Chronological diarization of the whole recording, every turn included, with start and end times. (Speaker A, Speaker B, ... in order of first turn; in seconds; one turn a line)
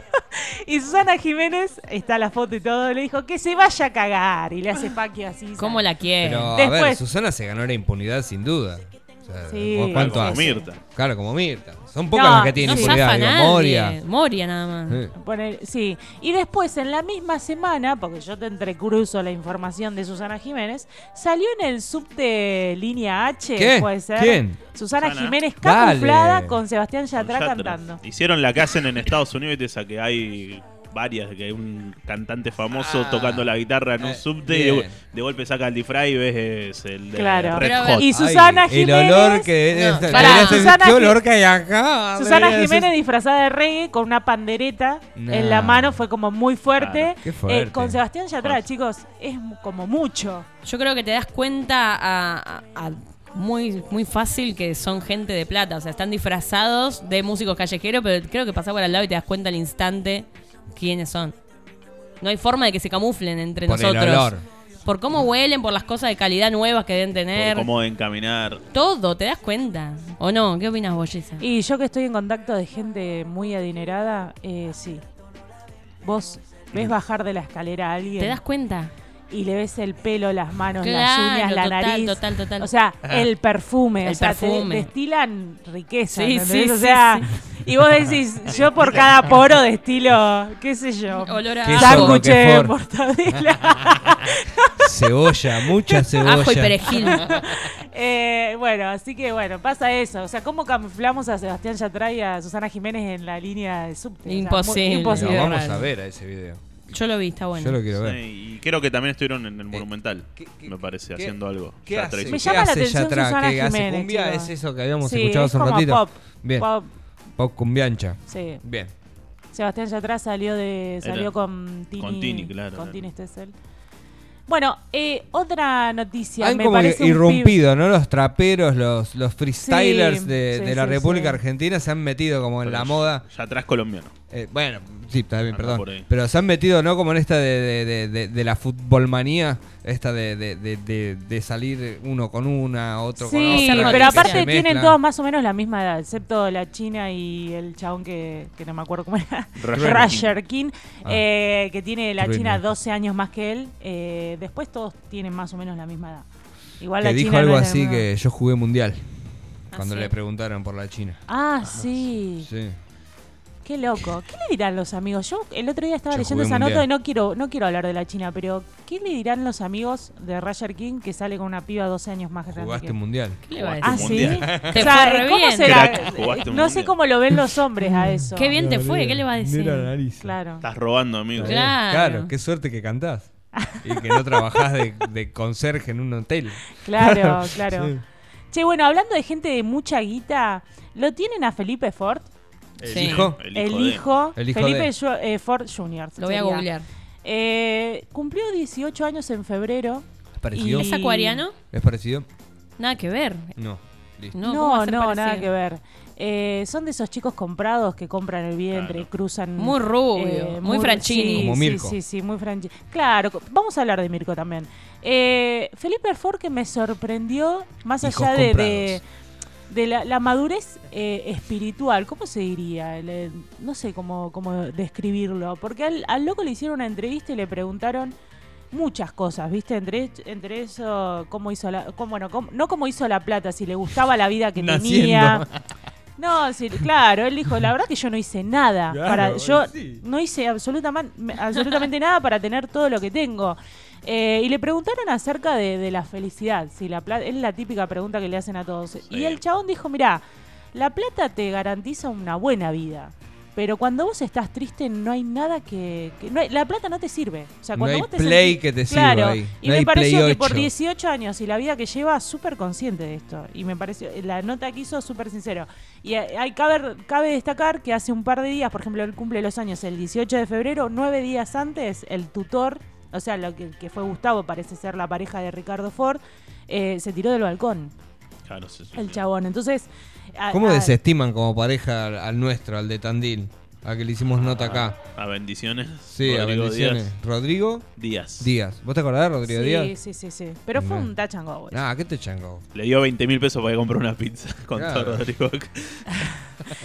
Speaker A: 0.2-5.9
Speaker B: 5.6-6.5
Speaker C: 6.2-14.0
Speaker A: 6.5-7.0
Speaker A: 9.5-10.7
Speaker D: 9.9-10.8
Speaker A: 12.1-13.0
Speaker B: 12.6-15.0
Speaker A: 15.2-28.0
Speaker C: 23.5-24.6
Speaker D: 25.0-25.4
Speaker C: 25.6-26.6
Speaker D: 27.1-38.1
Speaker C: 32.7-35.0
Speaker A: 37.2-39.6
Speaker B: 37.6-38.1
Speaker C: 38.1-42.9
Speaker B: 39.7-40.7
Speaker A: 40.1-41.2
Speaker A: 42.1-50.5
Speaker C: 45.2-46.0
Speaker D: 46.8-47.1
Speaker C: 47.2-48.0
Speaker B: 50.6-61.4
Speaker B: 62.2-64.3
Speaker C: 63.6-64.4
Speaker B: 64.8-67.7
Speaker D: 67.3-68.6
Speaker B: 68.7-71.4
Speaker A: 71.4-75.0
Speaker A: 76.0-78.4
Speaker B: 78.2-78.9
Speaker A: 79.3-96.3
Speaker B: 80.8-82.7
Speaker B: 84.0-84.9
Speaker B: 86.1-87.3
Speaker D: 88.5-89.1
Speaker B: 91.1-92.2
Speaker C: 91.6-92.7
Speaker C: 94.8-97.5
Speaker B: 96.2-97.5
Speaker A: 96.9-105.6
Speaker B: 104.3-105.9
Speaker C: 105.0-106.8
Speaker B: 106.9-107.8
Speaker C: 107.5-108.2
Speaker D: 107.9-112.5
Speaker C: 109.7-116.7
Speaker A: 112.3-116.9
Speaker C: 117.4-118.9
Speaker A: 118.3-118.6
Speaker A: 119.5-123.5
Speaker D: 121.0-121.3
Speaker D: 122.0-123.1
Speaker A: 124.5-127.6
Speaker C: 126.4-133.2
Speaker A: 129.6-131.4
Speaker D: 132.6-134.1
Speaker C: 134.3-145.0
Speaker D: 135.5-136.1
Speaker A: 143.2-156.3
Speaker B: 143.5-144.4
Speaker D: 149.6-150.3
Speaker C: 149.7-150.2
Speaker C: 152.2-152.8
Speaker A: 156.8-158.1
Speaker C: 157.0-161.2
Speaker B: 159.7-160.1
Speaker A: 161.3-162.5
Speaker C: 162.4-162.8
Speaker A: 163.7-173.0
Speaker C: 166.1-166.9
Speaker C: 172.5-173.4
Speaker B: 173.4-176.0
Speaker D: 173.6-174.6
Speaker A: 173.8-178.5
Speaker C: 174.4-174.9
Speaker D: 175.6-177.0
Speaker C: 177.4-180.4
Speaker B: 178.3-179.9
Speaker A: 180.2-180.6
Speaker D: 180.6-181.6
Speaker C: 181.3-188.0
Speaker B: 181.4-182.3
Speaker A: 183.6-184.8
Speaker A: 186.8-187.9
Speaker A: 188.5-192.3
Speaker C: 192.8-193.4
Speaker B: 192.8-193.3
Speaker D: 192.9-194.1
Speaker A: 193.5-196.7
Speaker C: 194.4-194.9
Speaker B: 196.2-196.9
Speaker A: 197.2-201.4
Speaker C: 200.4-200.9
Speaker B: 200.7-201.6
Speaker C: 201.7-202.3
Speaker B: 202.8-203.6
Speaker C: 203.6-204.4
Speaker B: 204.3-205.5
Speaker A: 204.4-219.0
Speaker D: 208.7-209.1
Speaker B: 209.6-211.6
Speaker C: 211.3-212.0
Speaker C: 218.0-219.0
Speaker A: 219.7-228.1
Speaker A: 228.7-235.4
Speaker C: 234.6-235.6
Speaker A: 236.2-250.2
Speaker C: 238.9-240.0
Speaker D: 249.1-249.4
Speaker A: 250.7-277.9
Speaker C: 257.8-260.7
Speaker D: 278.5-279.2
Speaker A: 278.9-281.0
Speaker C: 280.5-285.0
Speaker D: 284.3-287.1
Speaker C: 286.1-287.9
Speaker D: 288.0-288.5
Speaker C: 288.4-289.9
Speaker A: 289.5-291.8
Speaker C: 290.8-291.1
Speaker C: 291.7-292.6
Speaker D: 292.7-296.3
Speaker C: 294.7-295.2